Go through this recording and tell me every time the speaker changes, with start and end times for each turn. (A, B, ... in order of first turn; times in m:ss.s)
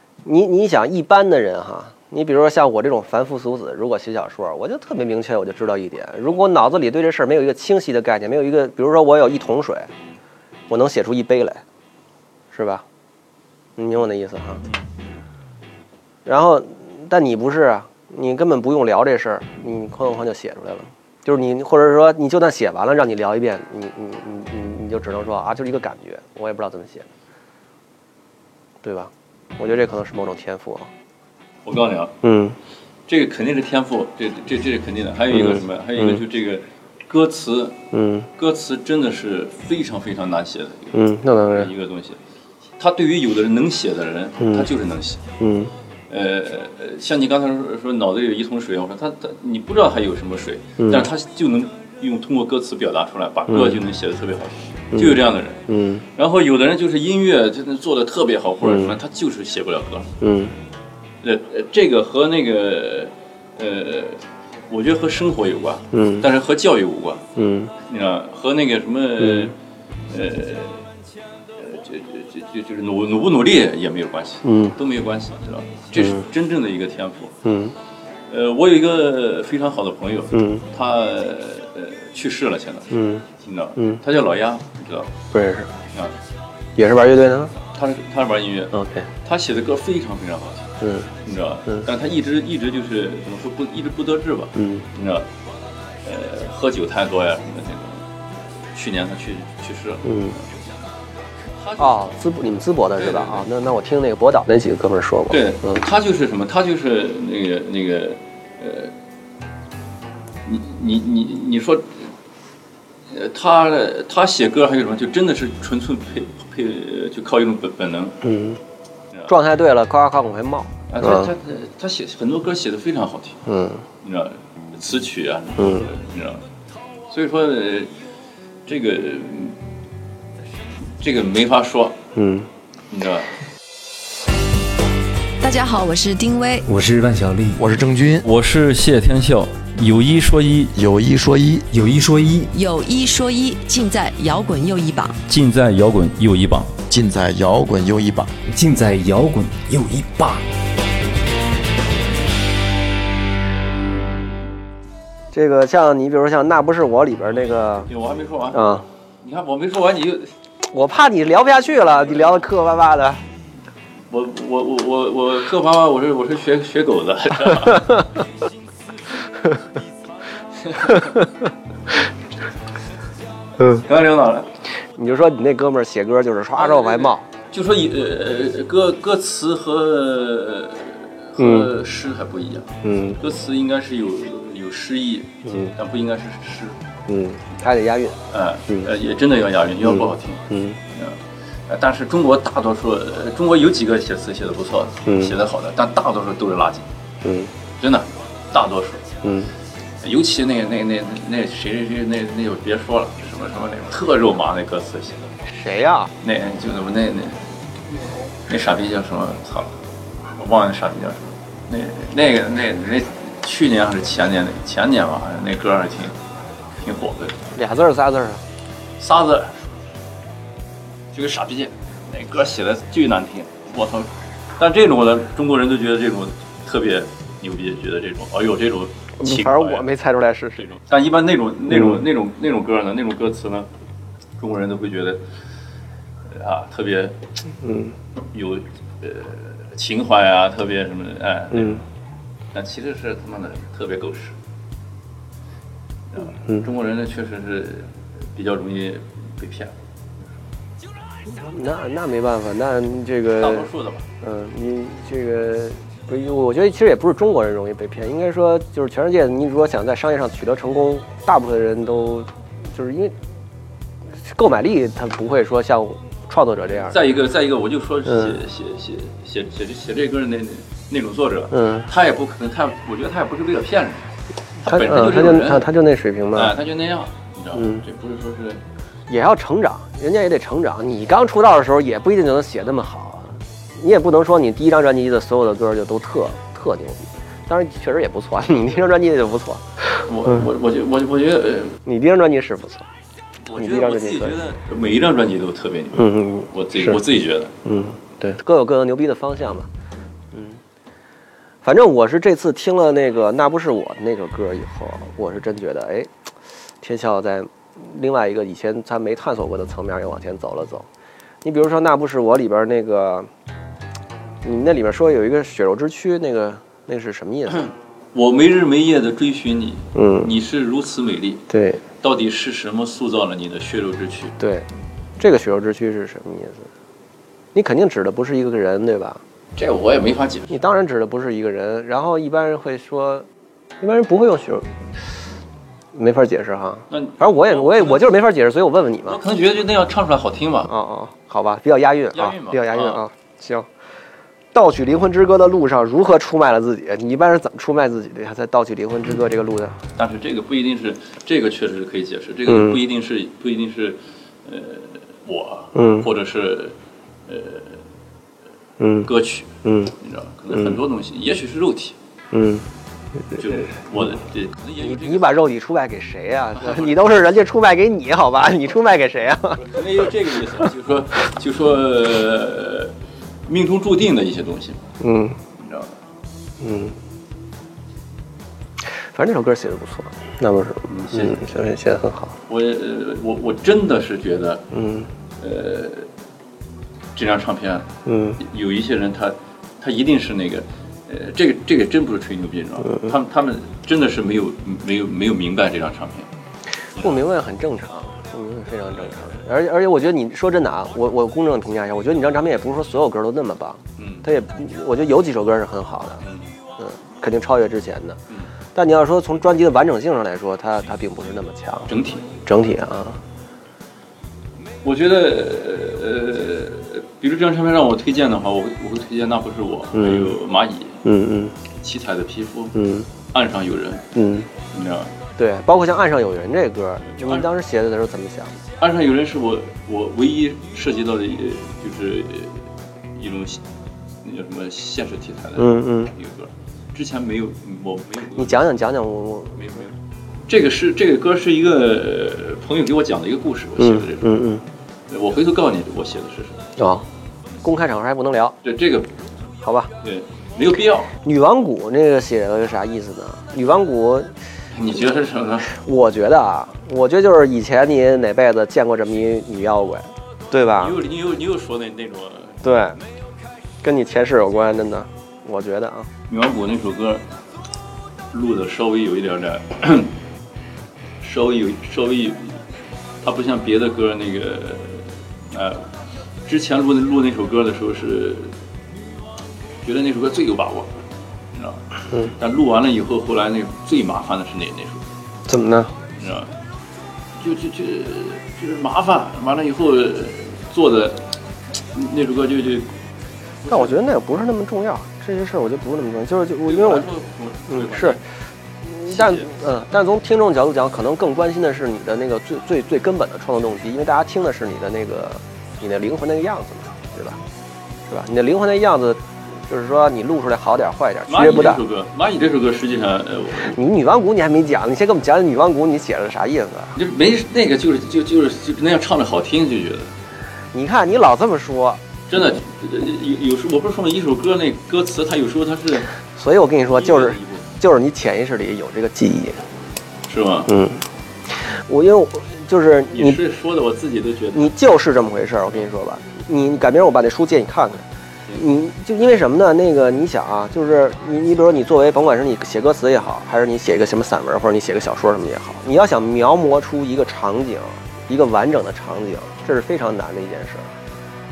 0:00.2-0:09.9 A
0:10.7-0:11.6 A
0:12.5-0:12.8 A
0:13.8-0:14.6 A
0:16.2-0:27.1 A
0:28.8-0:30.9 A
0:31.6-0:32.2 B
0:32.2-0:32.6 A
0:33.1-0:42.2 B
0:35.3-0:36.2 A
0:37.9-0:38.3 A
0:40.9-0:41.7 A
0:42.8-0:45.2 B
0:44.4-0:44.7 A
0:45.4-0:45.7 A
0:46.1-1:00.1 B
0:53.5-0:53.8 A
0:54.9-0:56.0 A
0:58.6-0:59.0 A
1:00.2-1:00.6 A
1:01.2-1:07.3 B
1:05.9-1:06.3 A
1:07.4-1:07.7 A
1:07.8-1:09.6 B
1:09.2-1:09.5 A
1:10.1-1:10.8 B
1:11.6-1:17.4 B
1:14.4-1:14.8 A
1:17.4-1:17.7 A
1:18.3-1:25.1 B
1:20.3-1:20.6 A
1:22.9-1:23.2 A
1:25.3-1:25.7 A
1:26.8-1:27.6 A
1:27.7-1:35.3 B
1:28.7-1:29.1 A
1:30.8-1:31.1 A
1:34.6-1:34.9 A
1:36.0-1:40.5 B
1:40.0-1:40.4 A
1:41.6-1:43.5 B
1:41.8-1:45.8 A
1:45.3-1:48.9 B
1:50.4-1:52.1 B
1:53.1-1:58.2 B
1:58.2-1:58.6 A
1:59.3-2:01.3 A
2:00.9-2:03.4 B
2:03.5-2:03.8 A
2:04.0-2:06.5 B
2:05.6-2:05.9 A
2:07.1-2:07.9 B
2:08.7-2:09.6 B
2:11.0-2:12.0 B
2:12.2-2:12.5 A
2:12.9-2:13.3 B
2:15.4-2:16.7 C
2:16.7-2:17.6 D
2:17.6-2:18.2 E
2:18.2-2:20.8 B
2:20.8-2:21.7 E
2:21.7-2:22.5 D
2:22.5-2:25.2 C
2:25.3-2:26.7 B
2:26.9-2:28.4 E
2:28.5-2:30.4 D
2:35.3-2:37.9 A
2:37.9-2:38.7 B
2:38.5-2:38.9 A
2:39.2-2:40.3 B
2:40.7-2:43.2 A
2:44.1-2:48.1 B
2:50.6-2:51.3 B
2:53.7-2:54.5 B
2:55.0-2:57.3 A
2:56.6-3:06.8 B
3:01.4-3:01.7 A
3:02.8-3:03.2 A
3:05.4-3:05.7 A
3:07.1-3:08.9 A
3:08.3-3:16.9 B
3:09.9-3:10.8 A
3:15.1-3:15.3 A
3:17.2-3:17.5 A
3:17.8-3:19.1 B
3:19.2-3:19.5 A
3:20.0-3:25.3 B
3:25.5-3:26.1 A
3:26.2-3:27.5 B
3:28.5-3:29.8 B
3:30.3-3:36.2 B
3:36.8-3:37.5 B
3:37.6-3:38.4 A
3:39.0-3:39.6 B
3:41.1-3:49.9 B
3:49.2-3:50.7 A
3:50.6-3:53.7 B
3:54.4-3:55.2 B
3:56.3-3:57.2 B
3:57.6-3:57.9 A
3:58.3-4:01.8 B
4:02.5-4:04.4 B
4:06.1-4:09.7 B
4:11.3-4:13.7 A
4:13.4-4:14.0 B
4:14.2-4:23.2 A
4:24.2-4:27.0 A
4:26.9-4:34.1 B
4:28.1-4:28.4 A
4:31.5-4:31.9 A
4:34.6-4:35.7 B
4:34.7-4:36.6 A
4:36.3-4:38.6 B
4:37.6-4:37.8 A
4:39.1-4:50.0 A
4:50.0-4:51.8 B
4:51.9-4:52.9 A
4:53.4-4:57.5 B
4:53.6-4:54.4 A
4:56.0-4:57.0 A
4:57.6-4:59.7 A
5:00.3-5:00.6 A
5:01.6-5:06.1 A
5:06.8-5:10.9 A
5:11.4-5:13.3 A
5:14.4-5:17.7 A
5:18.1-5:21.5 B
5:20.0-5:20.3 A
5:21.5-5:21.8 A
5:22.0-5:24.4 B
5:24.4-5:24.7 A
5:25.2-5:26.7 A
5:27.6-5:29.2 A
5:29.6-5:30.6 B
5:30.5-5:33.3 A
5:33.8-5:34.7 A
5:35.9-5:39.2 A
5:36.9-5:38.2 B
5:39.1-5:40.7 B
5:40.7-5:43.7 A
5:42.1-5:43.0 B
5:44.5-5:49.8 A
5:50.0-5:57.8 B
5:52.5-5:52.8 A
5:55.8-5:56.1 A
5:58.8-5:59.1 A
5:59.0-6:02.0 B
5:59.6-5:59.9 A
6:02.3-6:02.7 A
6:03.4-6:05.4 B
6:04.8-6:09.8 A
6:06.6-6:06.9 B
6:09.6-6:12.9 B
6:13.5-6:14.8 B
6:15.0-6:15.4 A
6:15.6-6:15.9 B
6:16.6-6:17.0 A
6:18.8-6:22.4 A
6:20.9-6:21.4 B
6:22.5-6:24.7 B
6:24.7-6:25.1 A
6:25.4-6:26.1 B
6:27.2-6:36.3 B
6:28.1-6:28.4 A
6:36.9-6:37.2 B
6:37.0-6:46.2 A
6:44.0-6:44.3 B
6:46.2-6:46.5 B
6:46.8-6:48.2 A
6:48.8-6:51.9 A
6:51.9-6:52.3 B
6:52.4-6:53.2 A
6:54.8-7:01.0 B
7:00.0-7:00.4 A
7:01.0-7:01.6 A
7:01.8-7:02.8 B
7:02.8-7:03.1 A
7:03.3-7:05.1 B
7:04.2-7:04.5 A
7:05.4-7:08.6 A
7:07.1-7:07.5 B
7:08.8-7:12.6 B
7:13.2-7:13.6 B
7:14.2-7:18.7 B
7:15.6-7:16.1 A
7:18.4-7:19.6 A
7:19.6-7:20.0 B
7:20.5-7:24.4 B
7:23.8-7:24.6 A
7:25.1-7:26.7 B
7:26.8-7:27.1 A
7:27.6-7:28.6 A
7:28.6-7:29.2 B
7:29.6-7:29.9 A
7:30.0-7:31.1 B
7:31.2-7:34.3 A
7:34.7-7:35.7 B
7:35.7-7:41.0 A
7:40.8-7:42.6 B
7:42.6-7:43.0 A
7:43.8-7:46.1 A
7:46.3-7:47.2 B
7:48.3-7:50.1 B
7:51.2-7:52.6 B
7:53.2-7:55.9 B
7:56.5-7:58.5 B
7:59.8-8:00.9 B
8:01.5-8:05.0 B
8:05.5-8:06.0 A
8:06.2-8:06.5 B
8:07.4-8:11.3 B
8:11.9-8:12.9 B
8:13.6-8:14.0 B
8:13.7-8:17.1 A
8:16.7-8:18.2 B
8:17.7-8:18.2 A
8:18.8-8:27.4 A
8:19.1-8:19.5 B
8:28.1-8:31.8 A
8:31.3-8:33.8 B
8:33.6-8:37.0 A
8:37.0-8:40.1 B
8:40.7-8:42.0 A
8:42.3-8:46.1 B
8:46.4-8:49.6 A
8:46.9-8:47.7 B
8:50.3-8:50.7 B
8:50.7-8:53.4 A
8:53.1-8:54.7 B
8:54.5-9:11.0 A